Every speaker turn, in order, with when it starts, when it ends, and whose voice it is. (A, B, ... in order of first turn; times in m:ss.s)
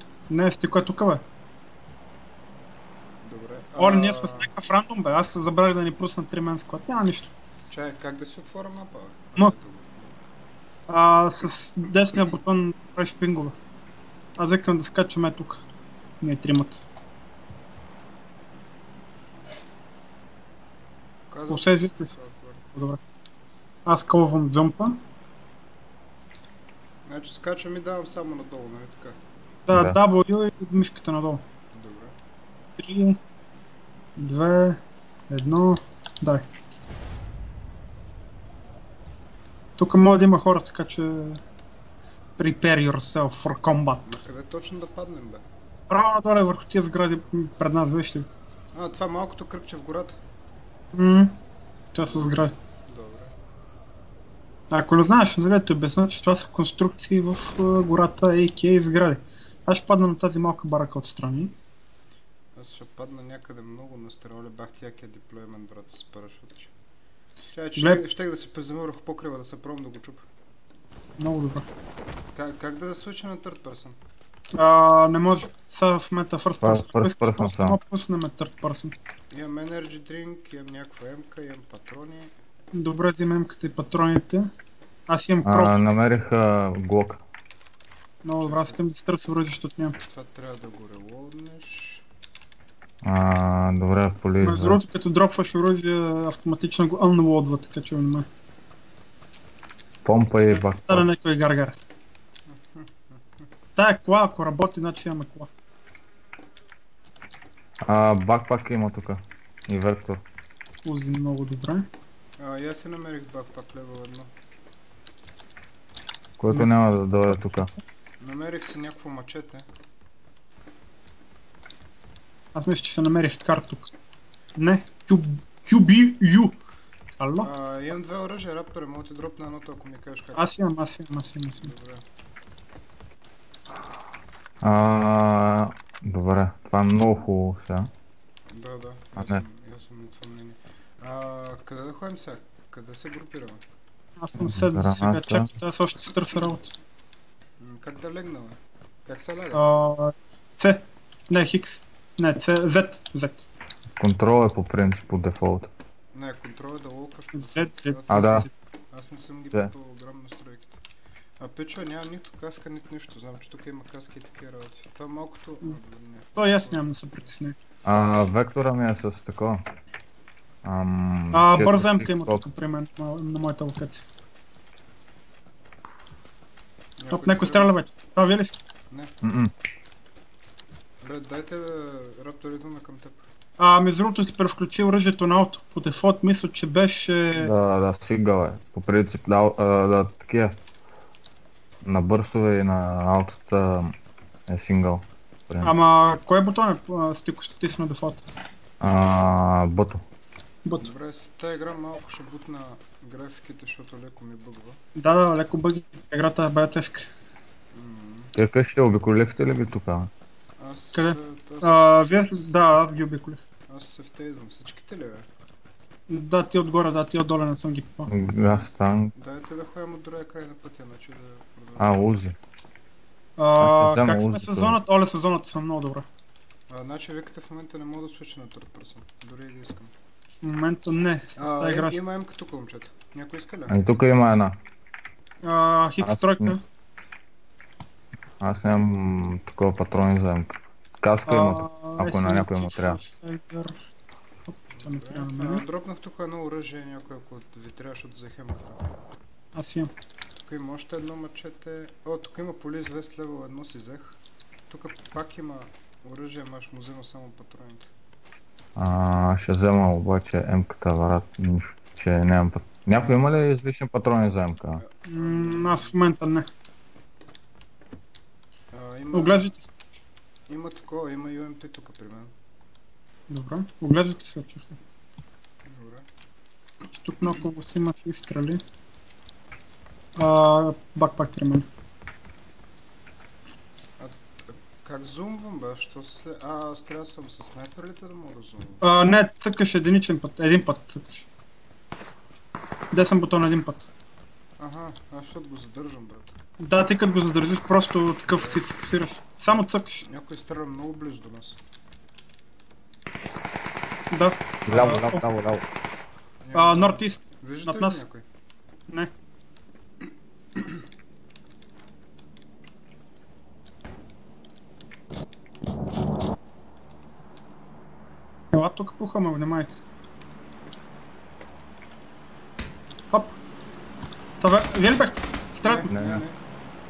0:00.3-0:01.2 A
0:03.2-0:04.5 B
0:03.8-0:07.3 A
0:07.7-0:10.2 B
0:10.9-0:13.6 A
0:14.4-0:15.6 A
0:16.2-0:16.8 A
0:21.3-0:22.6 B
0:21.5-0:22.1 A
0:22.8-0:23.0 A
0:23.9-0:25.0 A
0:27.0-0:29.2 B
0:29.7-0:30.0 C
0:29.7-0:31.4 A
0:31.7-0:32.2 B
0:32.8-0:33.2 A
0:34.2-0:36.5 A
0:39.8-0:41.4 A
0:42.4-0:44.2 A
0:44.1-0:45.4 B
0:45.9-0:48.3 A
0:48.7-0:50.2 B
0:50.9-0:51.4 A
0:51.9-0:52.5 A
0:52.0-0:53.3 B
0:54.7-1:01.5 A
1:02.6-1:06.7 B
1:07.5-1:10.2 B
1:07.8-1:08.0 A
1:11.2-1:11.6 A
1:12.3-1:14.0 B
1:14.5-1:19.0 A
1:16.6-1:17.8 C
1:19.3-1:22.3 B
1:22.7-1:24.5 A
1:25.1-1:25.8 A
1:25.4-1:27.2 C
1:28.2-1:30.0 A
1:28.4-1:28.8 B
1:30.1-1:32.0 B
1:33.0-1:34.8 C
1:34.4-1:38.3 A
1:40.0-1:41.1 C
1:40.5-1:41.8 A
1:42.5-1:43.5 B
1:43.8-1:45.5 A
1:47.8-1:50.2 C
1:50.8-1:51.9 A
1:52.4-1:54.3 B
1:56.4-1:57.7 C
1:58.2-1:59.7 B
2:02.6-2:03.9 A
2:04.6-2:06.6 A
2:07.2-2:07.5 A
2:07.4-2:10.5 B
2:10.4-2:11.7 A
2:11.6-2:12.0 B
2:14.6-2:17.9 C
2:18.5-2:23.6 B
2:19.2-2:19.4 C
2:24.2-2:26.7 A
2:24.4-2:25.5 C
2:27.6-2:29.6 B
2:29.5-2:33.5 A
2:34.0-2:35.7 C
2:36.1-2:40.8 B
2:37.4-2:38.5 A
2:38.1-2:38.5 C
2:41.4-2:46.9 B
2:46.4-2:47.6 A
2:47.8-2:49.6 C
2:50.6-2:52.4 C
2:51.3-2:54.0 A
2:57.0-2:57.8 B
2:57.1-2:58.6 A
2:59.2-2:59.5 C
3:01.0-3:03.2 B
3:03.6-3:07.5 A
3:07.4-3:10.6 C
3:11.8-3:13.9 C
3:14.5-3:15.7 C
3:15.6-3:18.3 A
3:18.8-3:20.0 C
3:20.6-3:20.9 A
3:20.8-3:24.8 B
3:25.0-3:27.1 A
3:27.7-3:28.3 B
3:28.4-3:30.1 C
3:30.6-3:32.5 B
3:31.0-3:33.4 A
3:33.7-3:35.3 B
3:36.1-3:38.1 A
3:38.1-3:39.1 C
3:38.4-3:42.0 B
3:41.8-3:42.4 C
3:43.4-3:46.1 A
3:43.6-3:44.8 C
3:46.7-3:49.9 B
3:50.4-3:52.0 A
3:51.4-3:53.8 B
3:53.7-3:54.6 C
3:55.4-3:56.6 A
3:56.0-3:56.5 C
3:58.4-4:03.0 C
4:01.3-4:03.8 A
4:04.5-4:05.6 A
4:04.8-4:08.8 B
4:09.6-4:09.9 A
4:10.3-4:17.9 B
4:18.8-4:24.8 C
4:23.0-4:23.3 B
4:24.8-4:25.9 B
4:25.1-4:26.5 A
4:28.7-4:29.5 B
4:29.1-4:29.9 A
4:30.5-4:32.3 B
4:33.3-4:34.8 A
4:35.6-4:36.0 B
4:36.9-4:38.6 A
4:40.2-4:41.7 A
4:44.0-4:48.8 B
4:48.8-4:51.3 A
4:52.9-4:53.9 A
4:54.6-4:56.4 B
4:56.6-5:00.1 A
4:58.3-4:58.6 B
5:00.1-5:01.6 B
5:04.1-5:05.2 A
5:04.7-5:05.6 C
5:06.4-5:08.2 B
5:06.5-5:08.0 A
5:18.5-5:19.8 A
5:24.4-5:25.9 A
5:25.6-5:26.4 B
5:25.9-5:26.2 C